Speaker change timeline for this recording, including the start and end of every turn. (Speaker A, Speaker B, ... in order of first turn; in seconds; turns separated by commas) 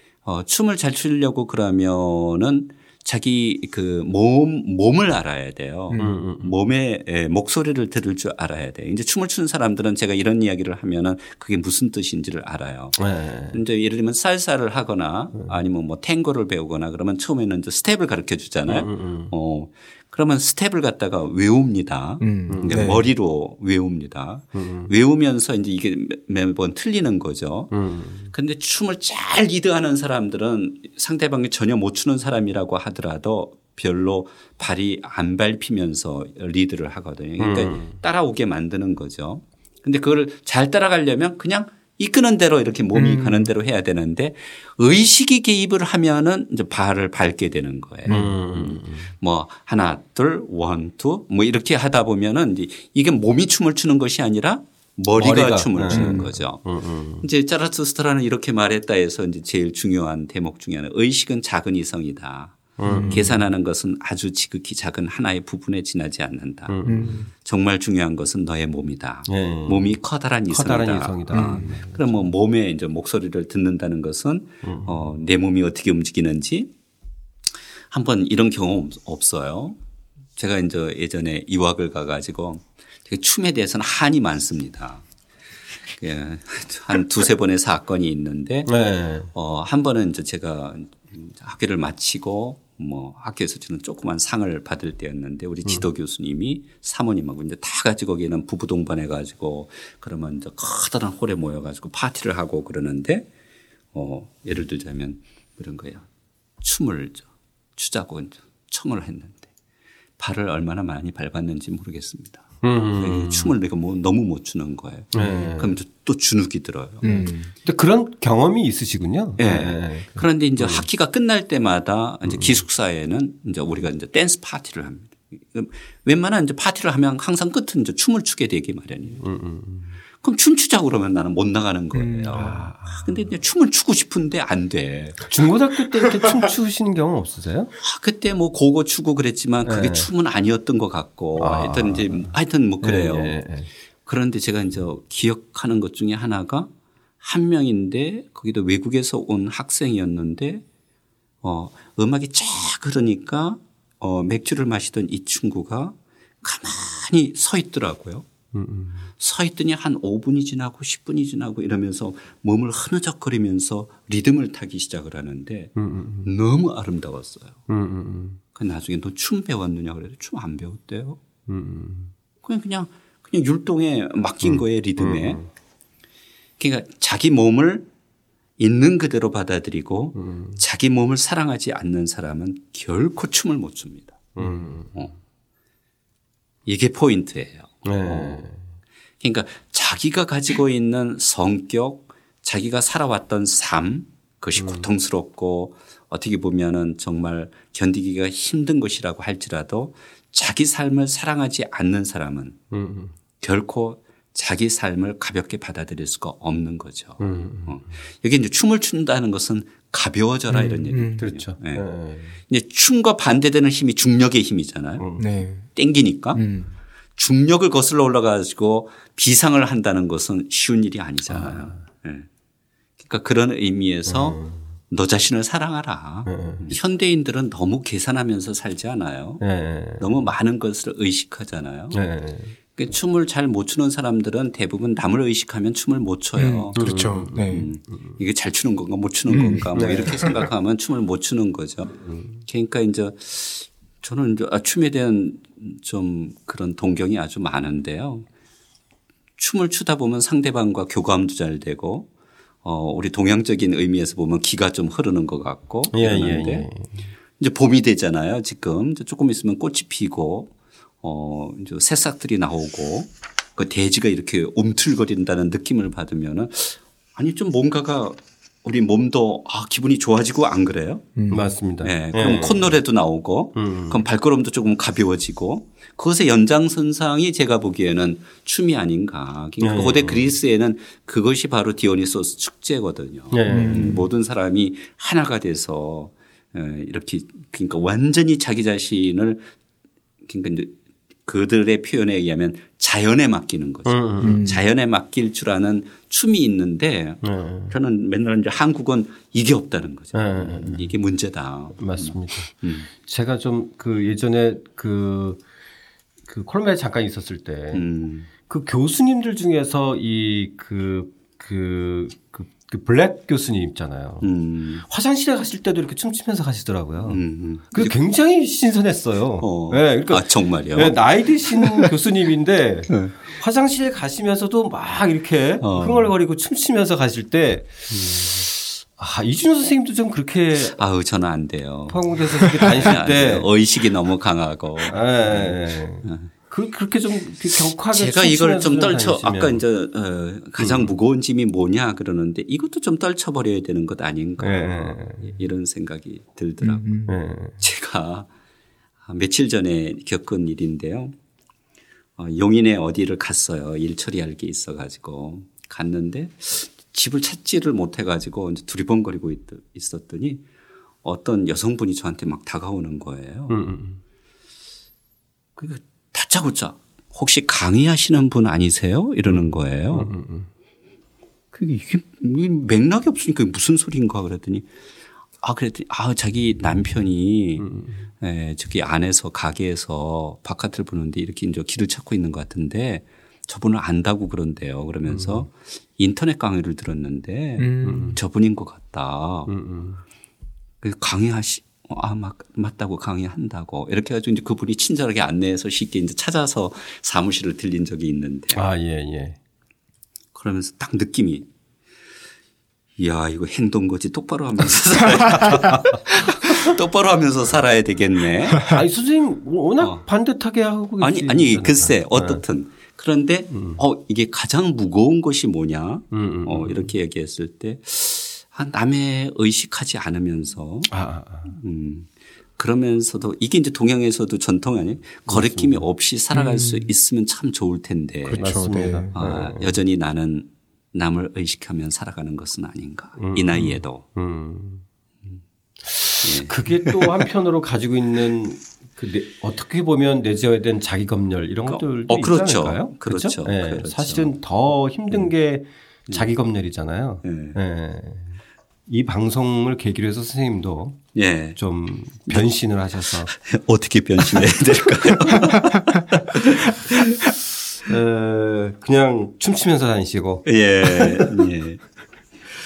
Speaker A: 0.2-27.8, Speaker B: 5.9-6.2, Speaker C: 6.0-6.6, Speaker C: 13.0-13.6, Speaker C: 18.7-19.3, Speaker B: 22.2-23.1, Speaker C: 22.5-23.1, Speaker C: 24.6-24.9, Speaker C: 27.7-28.3, Speaker A: 28.3-76.7, Speaker C: 37.4-38.0, Speaker B: 42.9-43.5, Speaker C: 48.1-49.1, Speaker C: 55.1-57.3, Speaker B: 55.9-56.3, Speaker C: 62.8-63.4, Speaker B: 62.9-63.3, Speaker C: 66.7-67.2, Speaker B: 66.8-67.3, Speaker C: 69.3-72.3, Speaker B: 71.3-71.7, Speaker C: 74.6-75.1, Speaker A: 77.9-79.8, Speaker A: 80.4-85.0, Speaker A: 86.0-88.7, Speaker C: 88.7-89.3, Speaker A: 89.3-103.3, Speaker A: 103.9-106.1, Speaker A: 106.6-107.2, Speaker A: 107.8-109.5, Speaker A: 110.2-117.2, Speaker C: 112.6-113.5, Speaker C: 115.1-115.8, Speaker B: 117.0-117.5, Speaker C: 117.1-120.9, Speaker A: 119.4-129.2, Speaker C: 122.2-122.6, Speaker C: 129.2-129.9, Speaker A: 130.2-135.3, Speaker B: 131.9-132.5, Speaker C: 132.3-133.3, Speaker C: 135.3-137.7, Speaker B: 136.1-136.4, Speaker A: 137.8-143.4, Speaker C: 139.6-140.1, Speaker C: 141.4-143.7, Speaker A: 144.1-146.7, Speaker A: 147.2-150.6, Speaker A: 151.4-158.3, Speaker C: 158.5-159.1, Speaker A: 159.2-167.6, Speaker C: 165.8-166.3, Speaker C: 167.7-168.4, Speaker A: 168.6-171.2, Speaker C: 171.5-172.1, Speaker A: 172.4-175.4, Speaker C: 174.4-175.5, Speaker A: 176.6-177.9, Speaker A: 178.6-185.1, Speaker C: 180.2-180.6, Speaker C: 184.4-185.0, Speaker A: 186.7-188.4, Speaker C: 187.8-188.6, Speaker A: 189.2-202.6, Speaker C: 194.6-194.9, Speaker C: 202.7-203.1, Speaker A: 203.4-211.9, Speaker C: 207.2-207.8, Speaker B: 210.5-211.3, Speaker C: 211.2-212.4, Speaker A: 212.5-215.1, Speaker C: 215.0-215.2, Speaker B: 215.2-215.7, Speaker A: 215.8-216.4, Speaker B: 216.3-216.7, Speaker A: 217.2-222.3, Speaker C: 221.3-221.8, Speaker A: 223.0-229.4, Speaker C: 224.1-224.6, Speaker C: 226.3-226.8, Speaker C: 229.4-230.1, Speaker A: 230.0-232.0, Speaker C: 231.9-232.6, Speaker A: 232.8-248.3, Speaker B: 236.4-237.7, Speaker C: 236.8-237.7, Speaker B: 239.3-240.3, Speaker C: 239.7-240.5, Speaker C: 242.1-242.4, Speaker A: 249.4-252.1, Speaker A: 252.6-256.7, Speaker C: 255.9-257.1, Speaker A: 257.4-260.5, Speaker A: 261.0-271.3, Speaker B: 271.2-271.5, Speaker C: 271.3-272.8, Speaker A: 271.8-289.4, Speaker C: 273.6-274.0, Speaker C: 279.6-280.3, Speaker C: 283.3-284.1, Speaker B: 283.5-284.1, Speaker A: 290.2-302.9, Speaker C: 293.9-294.5, Speaker B: 294.2-294.6, Speaker C: 297.2-297.8, Speaker C: 300.1-300.9, Speaker C: 301.8-305.4, Speaker C: 306.3-307.9, Speaker A: 307.7-308.3, Speaker C: 308.5-314.3, Speaker A: 314.2-314.8, Speaker C: 314.8-330.8, Speaker A: 317.1-318.0, Speaker A: 319.4-321.9, Speaker A: 322.9-323.2, Speaker A: 325.6-326.1, Speaker A: 330.8-336.3, Speaker C: 331.9-333.5, Speaker C: 334.9-339.6, Speaker A: 337.9-347.0, Speaker C: 340.6-340.9, Speaker C: 344.4-345.4, Speaker B: 346.6-347.2, Speaker C: 347.1-347.6, Speaker A: 347.6-348.3, Speaker A: 349.1-351.1, Speaker A: 352.2-360.4, Speaker A: 361.0-363.6, Speaker C: 363.5-364.0, Speaker A: 365.6-370.1, Speaker C: 369.3-370.5, Speaker A: 371.5-374.7, Speaker A: 375.4-377.7, Speaker C: 377.6-378.0, Speaker A: 378.2-389.5, Speaker C: 385.1-385.5, Speaker B: 387.6-388.2, Speaker C: 387.8-388.2, Speaker C: 389.5-390.0, Speaker A: 390.8-398.6, Speaker C: 398.5-399.4, Speaker A: 400.4-401.5, Speaker A: 403.0-408.8, Speaker C: 408.6-412.4, Speaker A: 411.0-420.9, Speaker C: 413.5-413.8, Speaker C: 416.1-416.9, Speaker C: 420.9-421.6, Speaker A: 421.5-428.6, Speaker C: 425.3-425.9, Speaker B: 426.3-426.9, Speaker C: 428.3-429.8, Speaker B: 428.4-429.1, Speaker A: 429.1-434.0, Speaker C: 433.2-434.8, Speaker C: 435.8-453.3, Speaker A: 436.2-437.2, Speaker A: 441.7-444.3, Speaker A: 447.2-447.6, Speaker A: 451.1-451.6, Speaker A: 453.2-457.2, Speaker B: 455.5-456.0, Speaker C: 457.9-461.3, Speaker A: 460.4-461.8